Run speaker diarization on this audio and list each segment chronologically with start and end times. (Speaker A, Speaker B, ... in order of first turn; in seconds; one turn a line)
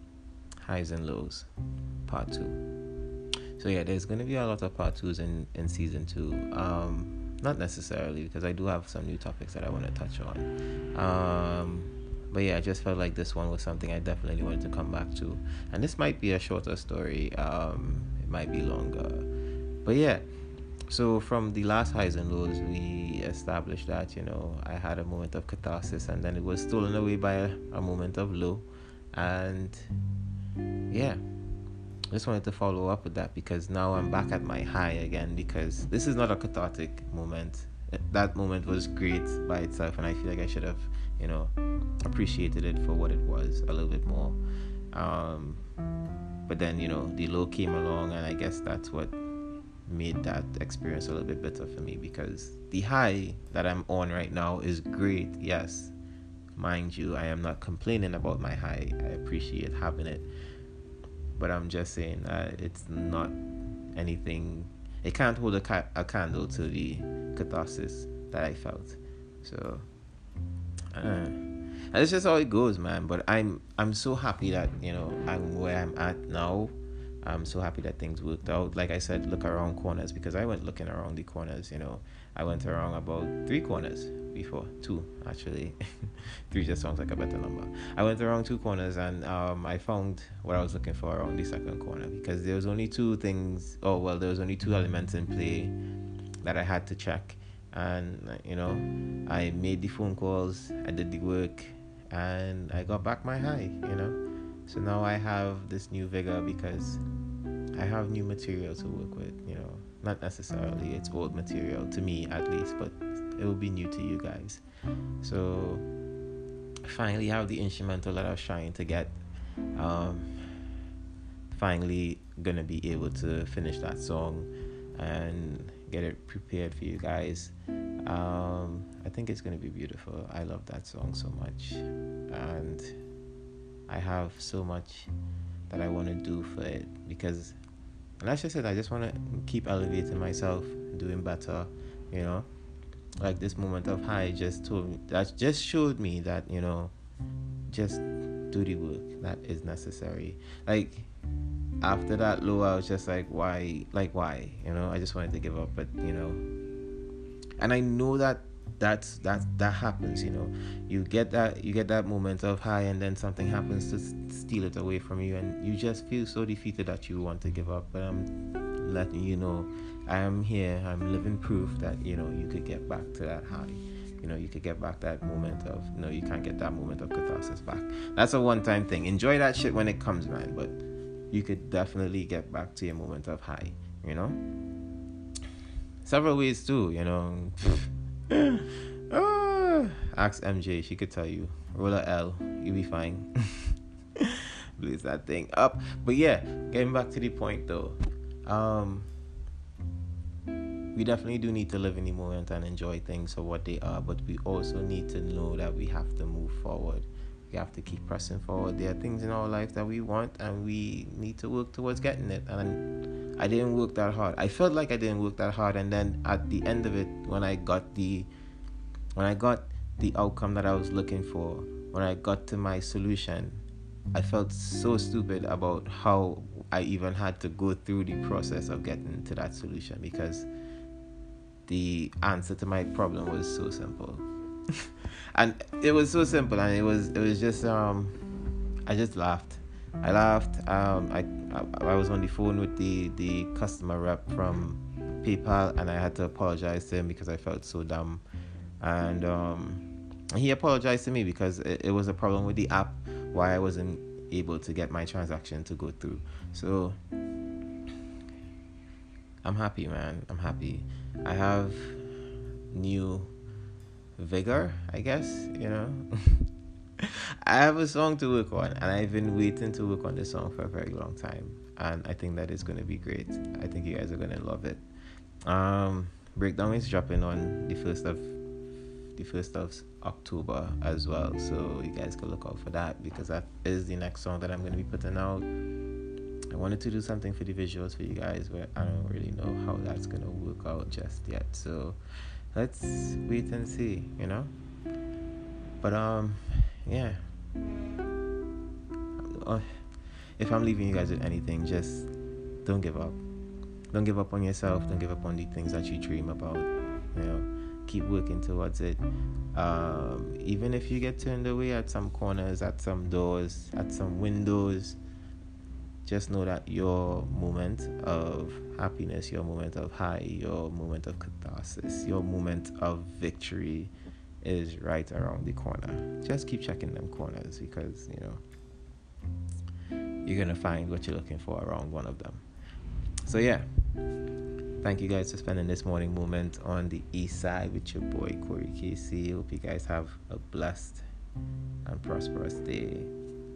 Speaker A: 0.6-1.5
Speaker A: 2.0-2.6
Speaker A: 3.5-19.3
Speaker A: 19.8-20.2
Speaker A: 20.9-29.9
Speaker A: 30.9-31.2
Speaker A: 32.1-41.5
Speaker A: 42.0-44.4
Speaker A: 44.9-45.6
Speaker A: 46.5-49.1
Speaker A: 49.9-55.9
Speaker A: 56.5-60.2
Speaker A: 61.4-63.4
Speaker A: 63.9-69.8
Speaker A: 70.9-95.7
Speaker A: 96.4-107.0
Speaker A: 107.7-114.6
Speaker A: 115.2-115.8
Speaker A: 116.8-119.1
Speaker A: 119.8-120.7
Speaker A: 121.5-133.0
Speaker A: 133.9-135.1
Speaker A: 135.7-137.6
Speaker A: 138.2-142.5
Speaker A: 143.2-146.9
Speaker A: 147.7-151.1
Speaker A: 151.8-156.4
Speaker A: 157.6-180.8
Speaker A: 181.3-184.4
Speaker A: 186.0-199.1
Speaker A: 200.9-218.3
Speaker A: 219.2-230.5
Speaker A: 231.7-234.2
Speaker A: 234.7-238.2
Speaker A: 238.8-248.2
Speaker A: 248.8-257.0
Speaker A: 259.4-262.2
Speaker A: 262.7-263.3
Speaker A: 264.2-266.4
Speaker A: 267.0-274.8
Speaker A: 275.4-278.4
Speaker A: 279.1-285.5
Speaker A: 286.5-292.0
Speaker A: 292.5-294.5
Speaker A: 295.8-297.2
Speaker A: 299.2-299.9
Speaker A: 300.4-302.1
Speaker A: 302.6-303.2
Speaker A: 303.9-309.0
Speaker A: 309.5-315.0
Speaker A: 316.0-328.4
Speaker A: 330.2-332.4
Speaker A: 333.2-333.7
Speaker A: 334.8-341.0
Speaker A: 341.8-343.1